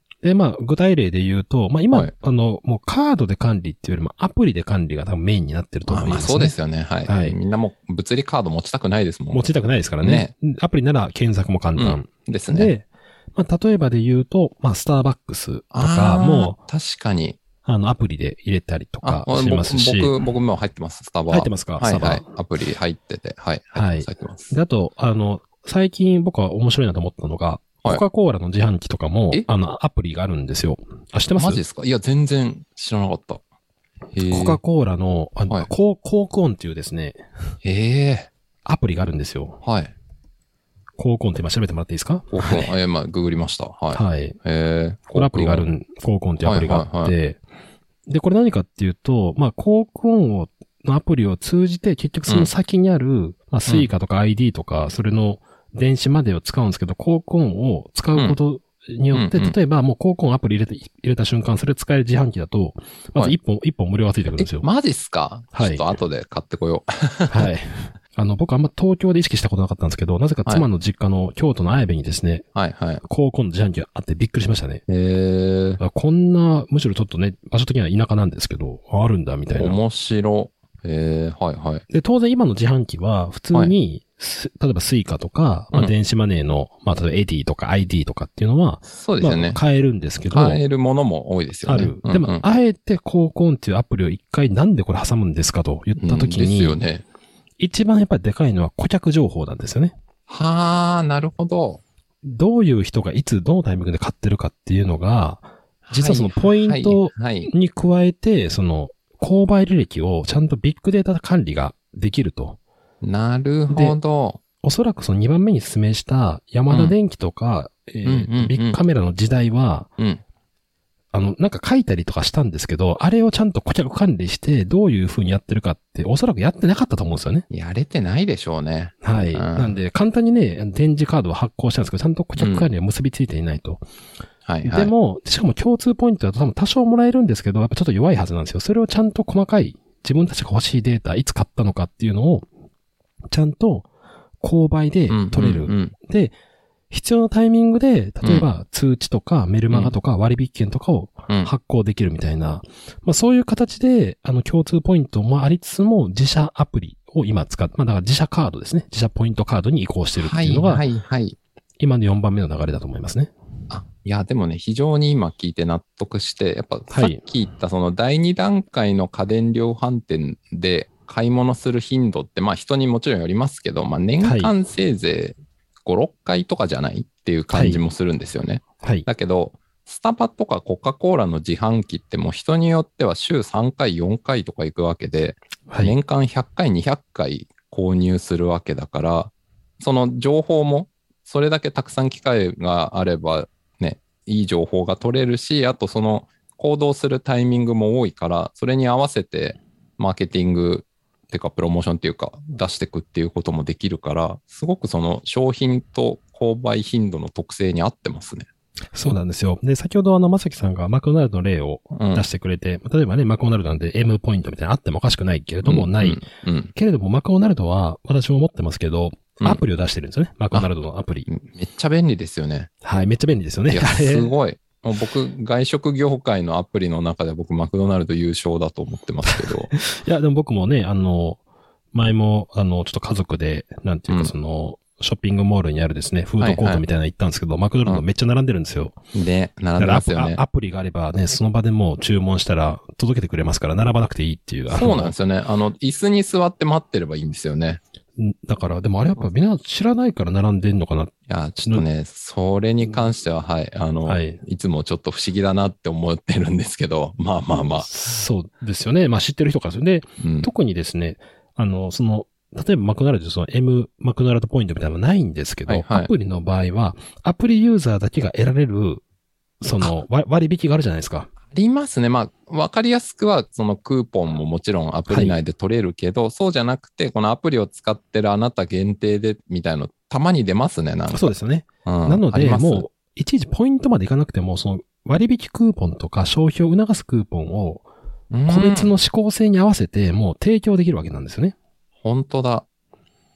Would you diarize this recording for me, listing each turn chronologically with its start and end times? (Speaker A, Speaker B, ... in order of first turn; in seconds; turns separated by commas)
Speaker A: 0.2-7.4, Speaker B: 5.9-9.5, Speaker A: 9.3-16.6, Speaker B: 10.0-10.3, Speaker B: 11.8-12.7, Speaker B: 15.7-17.4, Speaker A: 17.6-20.1, Speaker B: 19.0-24.5, Speaker A: 21.3-22.2, Speaker A: 23.7-31.6, Speaker B: 31.4-33.4, Speaker B: 34.1-34.6, Speaker A: 34.2-37.2, Speaker B: 37.6-38.3, Speaker A: 38.6-39.6, Speaker B: 39.6-39.9, Speaker A: 41.0-42.7, Speaker B: 42.3-45.6, Speaker A: 43.9-44.4, Speaker A: 45.1-47.4, Speaker B: 46.4-47.1, Speaker A: 48.1-64.7, Speaker B: 59.1-59.5, Speaker B: 64.4-67.5, Speaker A: 65.5-65.9, Speaker A: 67.3-72.5, Speaker B: 72.5-73.0, Speaker A: 73.0-74.8, Speaker B: 74.9-75.8, Speaker A: 75.8-79.8, Speaker B: 79.6-81.8, Speaker A: 81.9-90.6, Speaker B: 88.9-89.6, Speaker B: 90.3-92.5, Speaker A: 91.6-96.8, Speaker B: 96.0-97.0, Speaker A: 97.6-99.9, Speaker B: 100.3-101.8, Speaker A: 102.2-112.6, Speaker B: 105.8-107.5, Speaker B: 113.0-114.4, Speaker A: 113.7-114.0, Speaker A: 114.6-119.9, Speaker B: 116.7-116.9, Speaker B: 118.0-118.8, Speaker A: 121.1-127.5, Speaker B: 127.5-129.7, Speaker A: 129.0-133.8, Speaker B: 132.4-132.7, Speaker B: 134.4-134.9, Speaker A: 134.6-142.5, Speaker A: 143.3-143.9, Speaker A: 144.4-146.3, Speaker B: 145.1-145.9, Speaker A: 146.9-160.8, Speaker B: 160.2-161.4, Speaker A: 161.8-163.3, Speaker B: 163.7-208.5, Speaker A: 166.9-167.2, Speaker A: 174.2-174.5, Speaker A: 177.5-177.8, Speaker A: 178.8-179.1, Speaker A: 185.7-185.9, Speaker A: 208.9-216.2, Speaker B: 211.9-212.2, Speaker B: 215.6-216.7, Speaker A: 216.7-221.3, Speaker B: 221.3-222.7, Speaker A: 222.8-224.3, Speaker B: 223.7-229.7, Speaker A: 229.2-231.4, Speaker A: 231.9-239.0, Speaker B: 236.4-236.8, Speaker B: 239.1-240.4, Speaker A: 239.8-245.1, Speaker B: 244.7-247.8, Speaker A: 248.2-251.1, Speaker B: 251.3-257.9, Speaker A: 254.0-254.4, Speaker A: 257.5-269.0, Speaker B: 260.2-260.5, Speaker B: 265.7-266.1, Speaker A: 269.6-271.3, Speaker B: 271.5-281.3, Speaker A: 275.1-275.4, Speaker A: 281.1-287.9, Speaker B: 281.8-282.8, Speaker B: 288.3-288.9, Speaker A: 288.4-291.5, Speaker B: 292.0-292.6